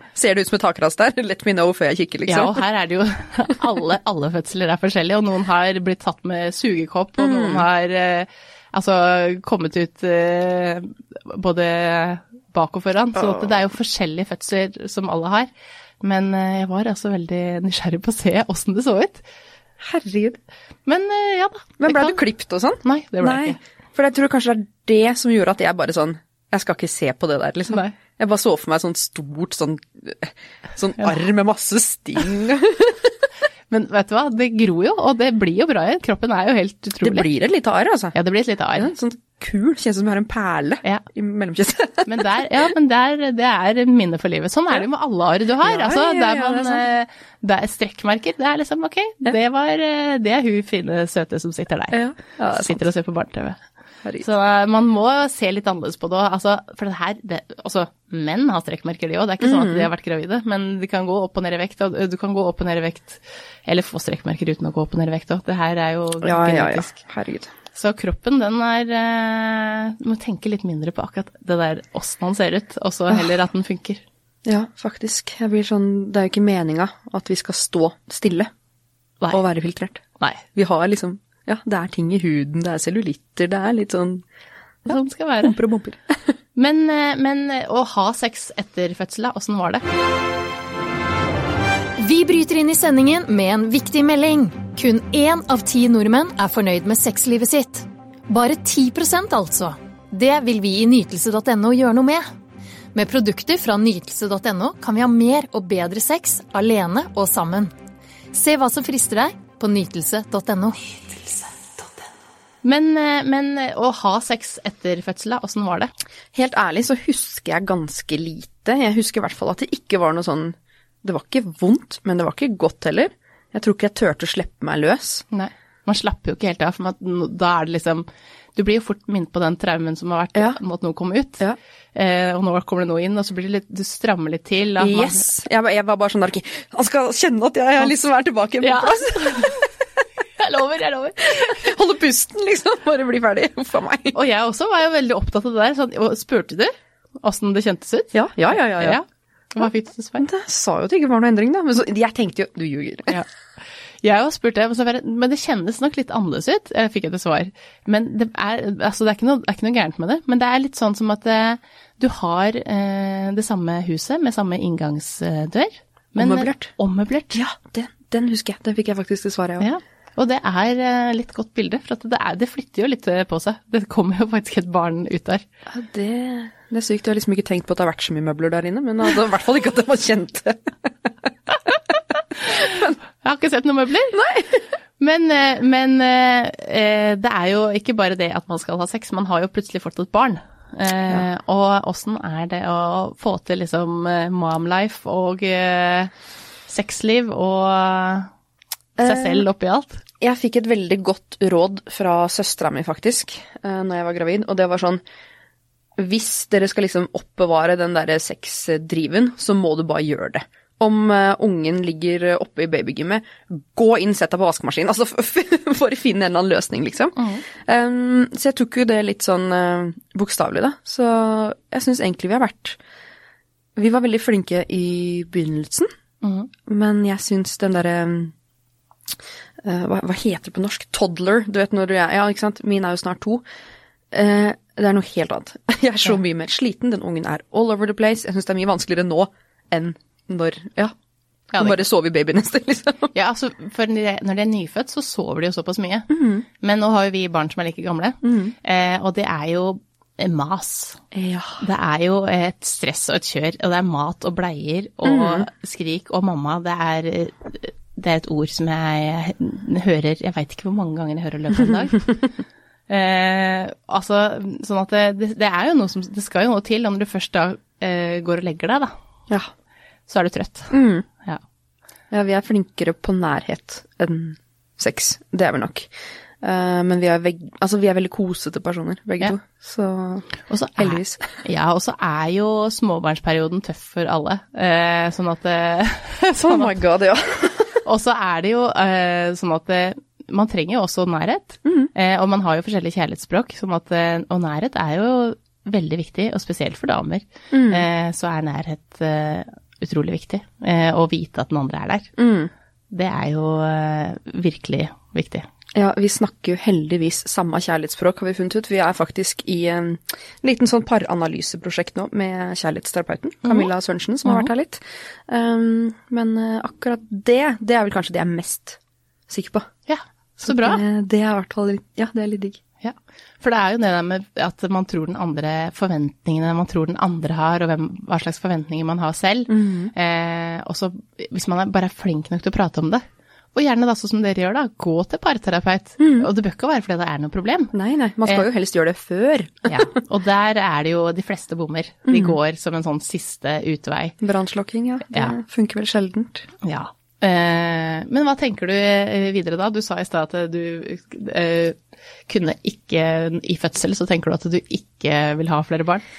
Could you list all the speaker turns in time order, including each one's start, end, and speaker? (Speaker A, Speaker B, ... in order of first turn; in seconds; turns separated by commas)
Speaker A: 0.1-2.6, Speaker B: 2.3-15.5, Speaker A: 7.2-7.7, Speaker A: 13.2-13.6, Speaker B: 16.0-19.2, Speaker A: 19.8-20.4, Speaker B: 20.9-22.2, Speaker A: 21.8-33.1, Speaker B: 22.8-23.6, Speaker B: 27.7-27.9, Speaker B: 33.7-37.3, Speaker A: 37.0-38.1, Speaker B: 38.1-38.9, Speaker A: 38.8-42.3, Speaker B: 42.1-53.6, Speaker A: 45.6-46.9, Speaker A: 51.9-52.8, Speaker B: 54.2-67.0, Speaker A: 59.4-59.9, Speaker A: 66.2-67.5, Speaker B: 67.7-74.0, Speaker A: 74.5-78.5, Speaker A: 79.3-80.0, Speaker A: 80.5-84.2, Speaker B: 84.9-85.6, Speaker A: 84.9-86.3, Speaker B: 86.6-89.8, Speaker C: 92.0-102.3, Speaker C: 102.9-107.7, Speaker C: 108.3-111.6, Speaker B: 112.6-115.9, Speaker A: 116.3-125.2, Speaker B: 125.3-131.4, Speaker B: 131.9-135.3, Speaker A: 134.8-139.6, Speaker B: 138.6-139.6, Speaker B: 140.4-141.7, Speaker A: 141.4-144.2, Speaker B: 144.1-150.3, Speaker A: 148.1-149.0, Speaker A: 150.2-153.2, Speaker B: 153.1-167.4, Speaker A: 166.2-166.7, Speaker A: 167.3-169.7, Speaker B: 169.6-175.4, Speaker A: 175.7-180.7, Speaker B: 182.4-184.2, Speaker A: 182.7-182.9, Speaker A: 184.1-184.6, Speaker B: 185.0-196.1, Speaker B: 196.7-198.3, Speaker A: 199.0-199.4, Speaker B: 199.0-200.0, Speaker A: 200.2-205.0, Speaker A: 206.0-222.8, Speaker B: 217.2-217.4, Speaker A: 223.8-225.9, Speaker B: 226.2-226.5, Speaker A: 226.7-228.3, Speaker A: 229.6-233.4, Speaker A: 234.1-240.9, Speaker B: 241.5-241.8, Speaker A: 241.6-243.1, Speaker B: 243.1-251.0, Speaker A: 246.1-246.5, Speaker A: 248.2-248.5, Speaker A: 251.1-251.6, Speaker B: 251.6-262.1, Speaker A: 255.0-255.5, Speaker B: 262.9-268.9, Speaker B: 270.1-271.4, Speaker A: 270.7-271.1, Speaker A: 272.1-281.2, Speaker B: 280.5-286.8, Speaker A: 286.4-287.8, Speaker B: 287.8-302.1, Speaker A: 291.6-291.9, Speaker A: 297.5-297.9, Speaker A: 302.2-302.5, Speaker B: 302.9-305.5, Speaker A: 305.8-319.7, Speaker B: 313.4-313.7, Speaker B: 314.2-314.5, Speaker B: 319.9-320.8, Speaker A: 320.4-322.6, Speaker B: 322.8-337.7, Speaker A: 329.5-329.9, Speaker A: 336.0-336.3, Speaker A: 337.7-340.0, Speaker B: 339.7-344.2, Speaker A: 342.1-342.4, Speaker A: 344.2-346.5, Speaker B: 345.1-345.4, Speaker B: 346.6-356.0